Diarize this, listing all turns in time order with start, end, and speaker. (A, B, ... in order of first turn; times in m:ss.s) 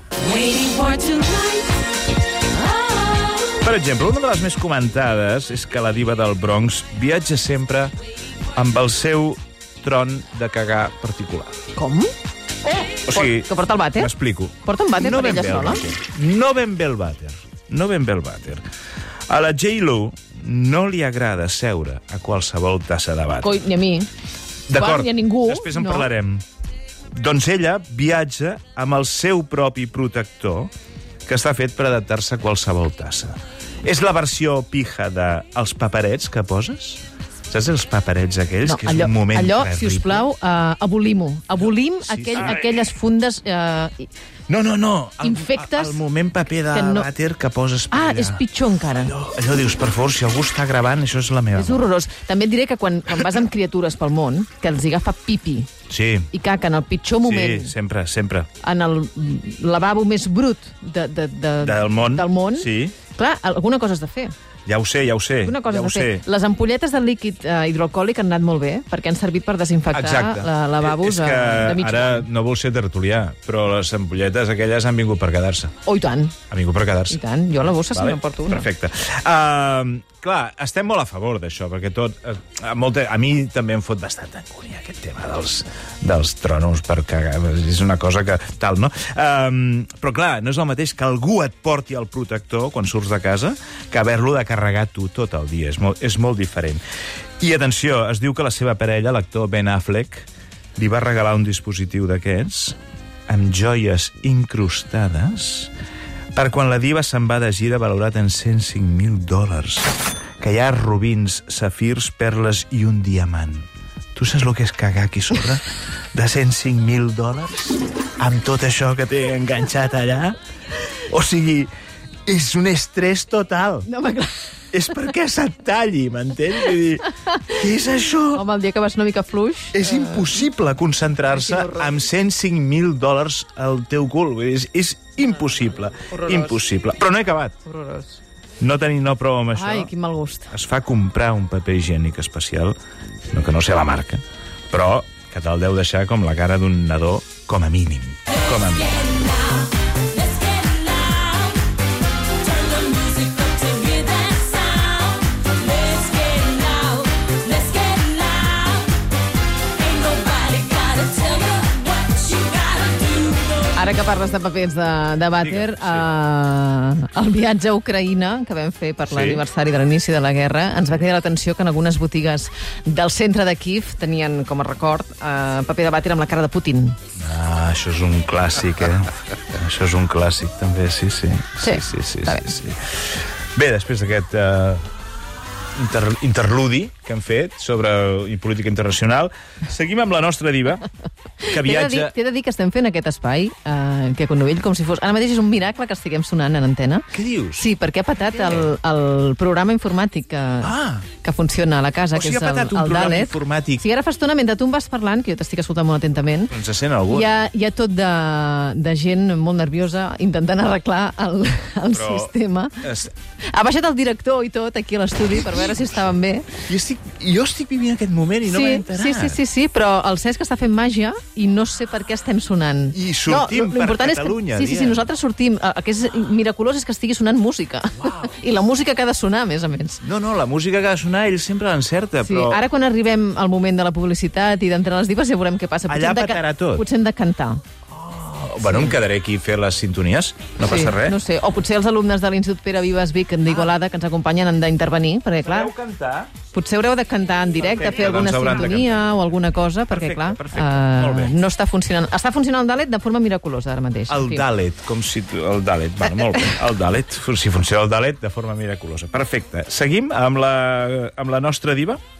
0:00.2-0:01.7 A
0:03.5-0:07.9 B
0:08.5-0:11.6 B
0:11.8-0:12.1 A
0:12.9-0:14.1 A
0:13.1-0:18.6 B
0:14.6-0:15.8 A
0:19.3-0:23.6 B
0:23.4-0:24.1 A
0:24.7-0:26.4 B
0:24.7-0:26.1 A
0:27.1-0:30.7 B
0:31.2-0:40.2 B
0:38.6-0:44.1 A
0:42.0-0:42.6 B
0:44.5-0:48.4 B
0:45.2-0:46.0 A
0:46.7-0:47.1 A
0:47.9-0:49.1 A
0:49.0-0:51.8 B
0:51.5-0:55.7 A
0:55.9-0:56.3 B
0:56.3-0:57.7 A
0:57.2-0:58.5 B
0:58.6-1:04.3 A
1:01.6-1:02.9 B
1:04.6-1:06.2 B
1:05.4-1:12.3 A
1:09.9-1:15.7 B
1:15.8-1:16.4 A
1:16.5-1:17.2 B
1:17.1-1:18.7 A
1:17.9-1:36.8 B
1:37.4-1:45.7 B
1:46.3-2:00.4 B
2:00.9-2:01.7 B
2:02.2-2:03.9 B
2:03.9-2:04.5 A
2:04.7-2:08.4 B
2:08.3-2:10.4 A
2:09.7-2:17.6 B
2:11.3-2:11.9 A
2:16.1-2:16.6 A
2:17.6-2:18.2 A
2:18.6-2:19.9 B
2:19.5-2:20.5 A
2:20.5-2:22.8 B
2:23.3-2:29.3 B
2:30.3-2:31.6 C
2:32.4-2:38.9 C
2:39.8-2:43.7 C
2:43.7-2:57.0 A
2:45.4-2:46.1 B
2:49.1-2:49.4 B
2:57.2-3:02.9 B
3:01.6-3:02.4 A
3:03.5-3:04.8 B
3:05.7-3:10.8 B
3:11.4-3:12.1 B
3:11.4-3:26.5 A
3:17.1-3:17.7 B
3:20.6-3:21.0 B
3:22.1-3:23.8 B
3:26.5-3:27.4 B
3:27.1-3:32.8 A
3:31.9-3:33.1 B
3:33.5-3:36.6 A
3:35.3-3:35.9 B
3:36.5-3:39.4 B
3:38.4-3:50.0 A
3:42.9-3:45.1 B
3:48.0-3:48.3 B
3:50.0-3:52.6 B
3:52.2-3:57.6 A
3:55.9-3:56.8 B
3:57.9-4:01.2 B
3:58.6-3:58.9 A
4:00.6-4:05.7 A
4:05.4-4:06.3 B
4:06.5-4:14.4 A
4:07.6-4:09.0 B
4:09.9-4:11.4 B
4:14.1-4:22.0 B